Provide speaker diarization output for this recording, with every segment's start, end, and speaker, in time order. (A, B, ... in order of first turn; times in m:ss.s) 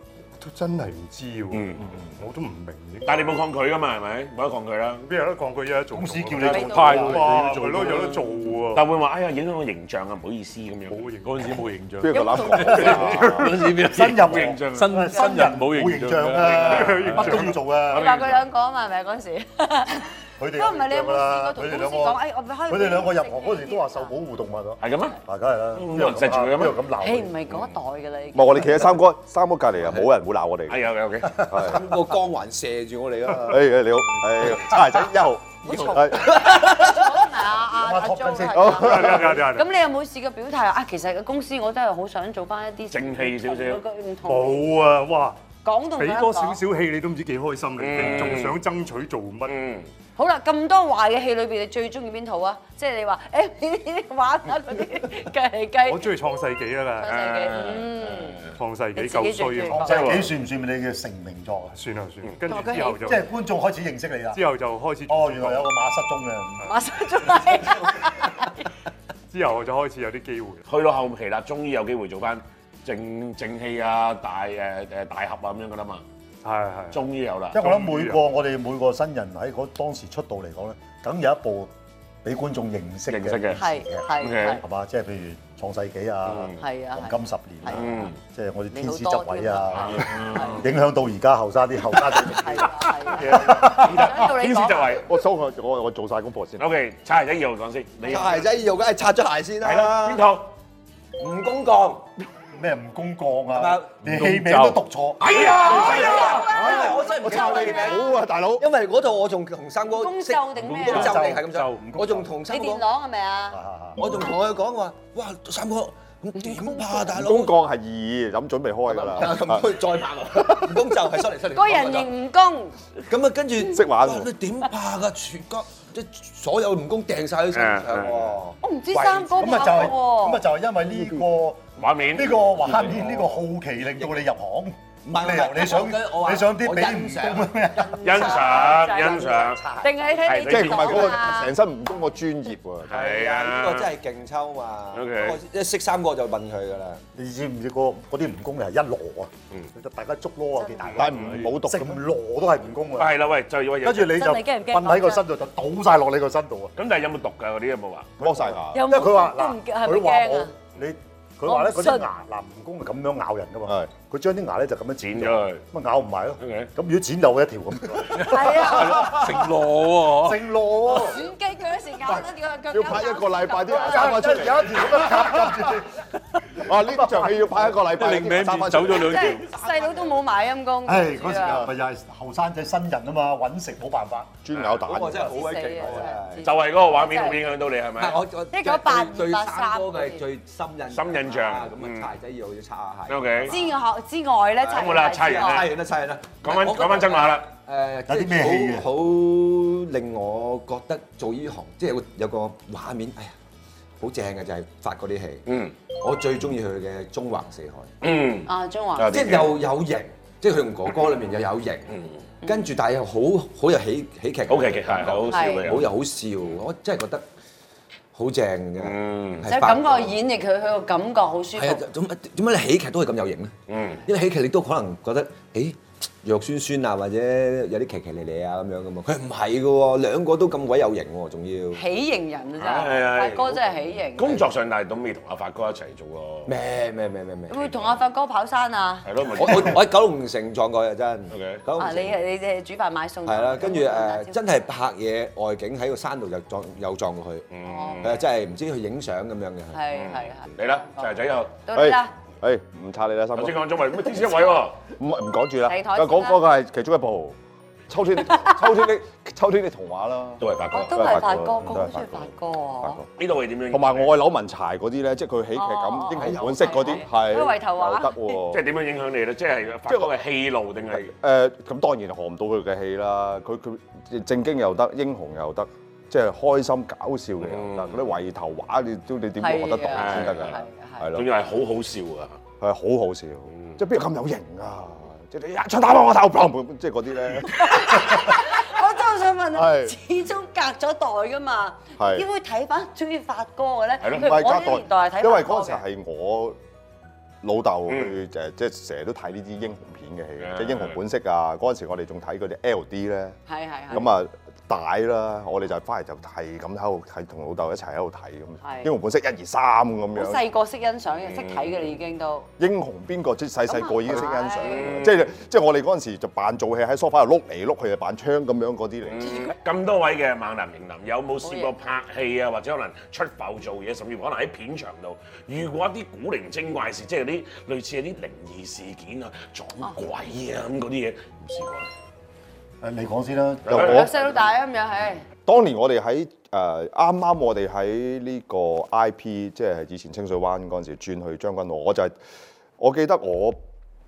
0:00.4-0:03.4 A
0:01.5-0:01.8 B
0:03.0-0:05.1 B
0:05.0-0:08.9 A
0:05.9-0:07.5 C
0:06.4-0:07.2 D
0:06.6-0:08.4 E
0:08.7-0:11.1 B
0:10.9-0:11.6 A
0:11.2-0:17.4 E
0:12.0-0:13.5 F
0:12.1-0:13.0 D
0:12.6-0:13.2 C
0:13.8-0:14.9 B
0:13.8-0:18.1 C
0:15.0-0:15.4 D
0:16.4-0:18.5 B
0:16.6-0:17.6 A
0:17.9-0:24.1 D
0:20.4-0:27.4 C
0:24.8-0:25.2 B
0:25.7-0:26.8 B
0:27.0-0:28.7 D
0:28.3-0:32.0 F
0:30.7-0:31.5 B
0:31.6-0:33.6 G
0:33.4-0:36.8 F
0:35.6-0:37.0 G
0:36.4-0:44.7 D
0:37.6-0:39.0 C
0:38.5-0:39.3 F
0:38.7-0:39.7 A
0:42.9-0:43.8 B
0:44.3-0:45.4 A
0:45.6-0:46.6 D
0:45.9-0:49.6 A
0:47.8-0:48.6 B
0:49.4-0:49.9 B
0:50.2-0:56.1 D
0:55.9-0:57.2 A
0:57.0-0:58.4 D
0:57.1-0:58.6 B
0:58.6-1:00.2 A
0:59.0-1:00.2 D
0:59.7-1:01.7 C
0:59.8-1:00.3 B
1:01.7-1:03.3 A
1:02.5-1:03.2 D
1:03.0-1:04.4 C
1:04.3-1:05.7 A
1:05.1-1:06.7 C
1:06.6-1:08.7 D
1:09.3-1:10.6 A
1:10.7-1:16.0 B
1:16.4-1:17.0 A
1:16.9-1:17.7 B
1:17.5-1:21.7 C
1:17.6-1:18.2 A
1:22.2-1:24.1 C
1:23.1-1:23.6 B
1:23.6-1:24.6 D
1:24.2-1:24.6 B
1:24.6-1:34.1 C
1:26.2-1:26.6 B
1:26.6-1:28.0 D
1:27.7-1:28.2 B
1:28.7-1:30.6 D
1:29.8-1:30.6 B
1:32.2-1:35.0 D
1:33.2-1:35.1 B
1:35.0-1:36.7 F
1:36.6-1:38.5 B
1:38.0-1:40.3 G
1:39.6-1:40.5 B
1:41.2-1:42.1 G
1:42.5-1:45.4 C
1:43.5-1:44.0 G
1:44.0-1:44.8 E
1:45.2-1:46.8 B
1:45.4-1:48.1 D
1:45.6-1:52.8 G
1:47.2-1:48.7 F
1:49.8-1:51.2 D
1:50.6-1:51.8 E
1:50.9-1:52.3 C
1:52.5-1:53.6 D
1:53.5-1:54.1 C
1:54.0-1:57.6 G
1:56.4-1:57.0 D
1:57.1-1:59.8 F
1:58.9-2:02.1 G
2:00.4-2:00.8 F
2:01.5-2:02.8 D
2:03.0-2:09.9 G
2:03.7-2:04.3 F
2:07.5-2:08.4 B
2:08.6-2:10.4 D
2:09.4-2:18.3 C
2:11.8-2:13.3 B
2:13.0-2:13.2 G
2:15.0-2:20.1 G
2:18.0-2:21.5 D
2:18.0-2:19.6 B
2:20.2-2:21.2 B
2:20.5-2:23.0 F
2:22.9-2:23.9 B
2:22.9-2:27.0 G
2:24.9-2:25.4 B
2:27.2-2:33.2 C
2:30.6-2:30.8 D
2:30.9-2:31.3 B
2:31.0-2:32.1 F
2:31.2-2:31.5 E
2:33.0-2:34.2 B
2:33.8-2:36.7 C
2:34.1-2:35.2 D
2:36.8-2:38.1 B
2:38.2-2:38.9 F
2:38.2-2:49.6 C
2:38.7-2:40.5 D
2:41.4-2:42.1 D
2:43.6-2:43.9 F
2:45.0-2:45.6 B
2:46.4-2:46.7 B
2:48.1-2:50.5 E
2:48.2-2:49.2 D
2:50.1-2:51.2 C
2:50.9-2:54.4 D
2:52.7-2:55.8 F
2:53.7-2:56.0 C
2:56.5-2:59.2 F
2:56.7-2:57.6 C
2:57.9-2:59.5 E
2:59.0-3:01.7 D
2:59.4-3:00.2 G
3:00.8-3:04.4 C
3:04.4-3:05.5 F
3:04.5-3:04.8 B
3:04.8-3:06.5 G
3:05.3-3:07.4 D
3:06.4-3:08.2 B
3:08.0-3:13.7 G
3:08.5-3:10.2 D
3:10.9-3:12.1 B
3:13.1-3:13.6 B
3:13.4-3:15.7 D
3:14.6-3:15.8 B
3:14.9-3:23.4 G
3:16.4-3:17.5 B
3:18.1-3:18.9 C
3:24.0-3:27.9 G
3:25.5-3:25.8 B
3:28.0-3:29.5 B
3:28.4-3:29.2 D
3:29.1-3:37.2 G
3:31.9-3:32.2 B
3:32.4-3:32.7 D
3:34.5-3:35.9 B
3:35.3-3:35.7 D
3:38.1-3:40.2 G
3:38.8-3:39.5 B
3:39.5-3:41.8 D
3:41.6-3:51.8 G
3:43.7-3:44.0 B
3:51.8-3:54.5 D
3:52.6-3:56.5 B
3:56.5-3:57.7 G
3:57.5-3:59.1 D
3:59.0-3:59.8 B
3:59.4-4:02.2 G
4:01.3-4:01.6 B
4:01.8-4:04.4 D
4:03.2-4:09.8 G
4:07.5-4:08.2 B
4:07.6-4:08.2 D
4:09.7-4:12.1 D
4:09.9-4:11.6 B
4:11.7-4:14.0 F
4:13.4-4:14.8 B
4:15.0-4:17.4 F
4:15.7-4:16.4 D
4:17.9-4:23.2 F
4:18.3-4:18.6 D
4:20.4-4:21.2 B
4:20.7-4:23.0 D
4:23.2-4:24.2 B
4:23.7-4:28.7 F
4:25.6-4:28.4 D
4:26.1-4:27.0 G
4:28.5-4:31.1 B
4:29.9-4:30.2 F
4:30.9-4:41.3 F
4:37.4-4:38.2 B
4:39.4-4:41.1 D
4:39.9-4:40.6 B
4:41.1-4:42.4 B
4:42.6-4:48.4 F
4:43.5-4:43.8 B
4:47.5-4:55.8 D
4:49.5-4:50.0 F
4:52.0-4:52.3 F
4:54.0-4:54.4 B
4:54.1-4:56.6 F
4:57.4-5:03.4 F
4:57.9-4:58.2 B
5:00.4-5:01.0 B
5:03.5-5:04.1 D
5:03.9-5:10.4 F
5:08.6-5:08.9 D
5:10.2-5:12.5 D
5:11.2-5:12.0 B
5:12.6-5:19.3 F
5:13.7-5:15.0 D
5:14.6-5:15.4 B
5:19.1-5:31.9 B
5:19.2-5:19.6 D
5:21.4-5:21.7 D
5:32.8-5:34.0 C
5:33.6-5:34.1 B
5:33.7-5:34.2 F
5:33.7-5:35.2 D
5:35.5-5:42.2 F
5:42.8-5:43.6 F